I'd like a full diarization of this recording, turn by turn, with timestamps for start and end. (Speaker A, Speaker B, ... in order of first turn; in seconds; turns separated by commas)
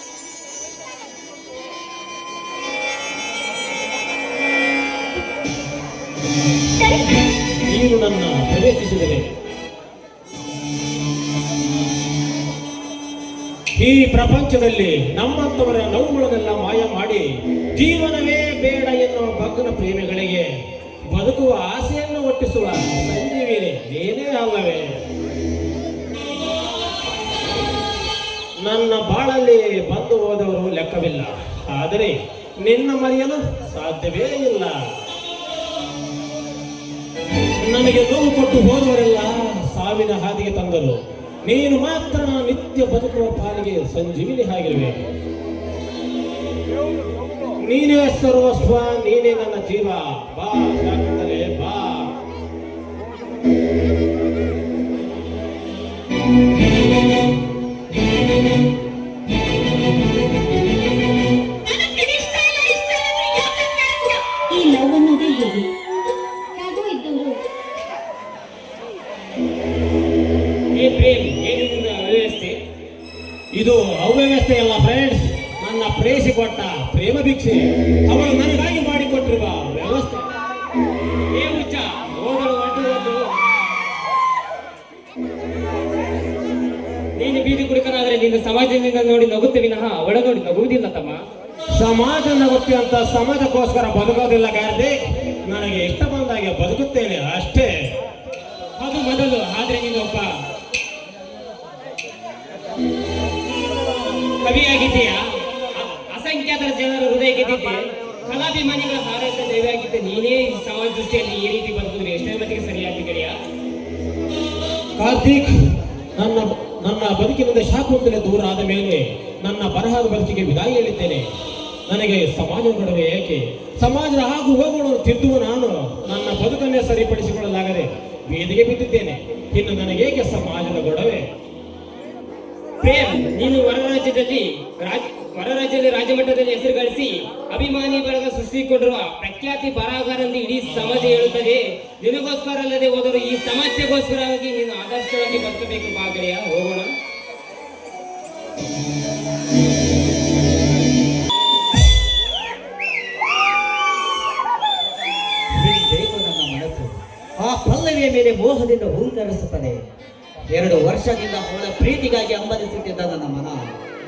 Speaker A: 7.6-9.2, Speaker A: 13.8-20.5, Speaker A: 21.1-25.0, Speaker A: 28.6-34.9, Speaker A: 37.6-45.1, Speaker A: 47.6-52.1, Speaker B: 64.5-65.7, Speaker B: 66.5-67.4, Speaker C: 70.7-72.6, Speaker A: 73.5-80.3, Speaker C: 81.3-83.2, Speaker C: 87.2-91.2, Speaker A: 91.7-97.9, Speaker C: 98.8-100.3, Speaker C: 104.4-113.3, Speaker A: 115.0-121.2, Speaker A: 121.9-131.2, Speaker C: 132.8-146.9, Speaker D: 155.6-159.8, Speaker D: 160.5-163.7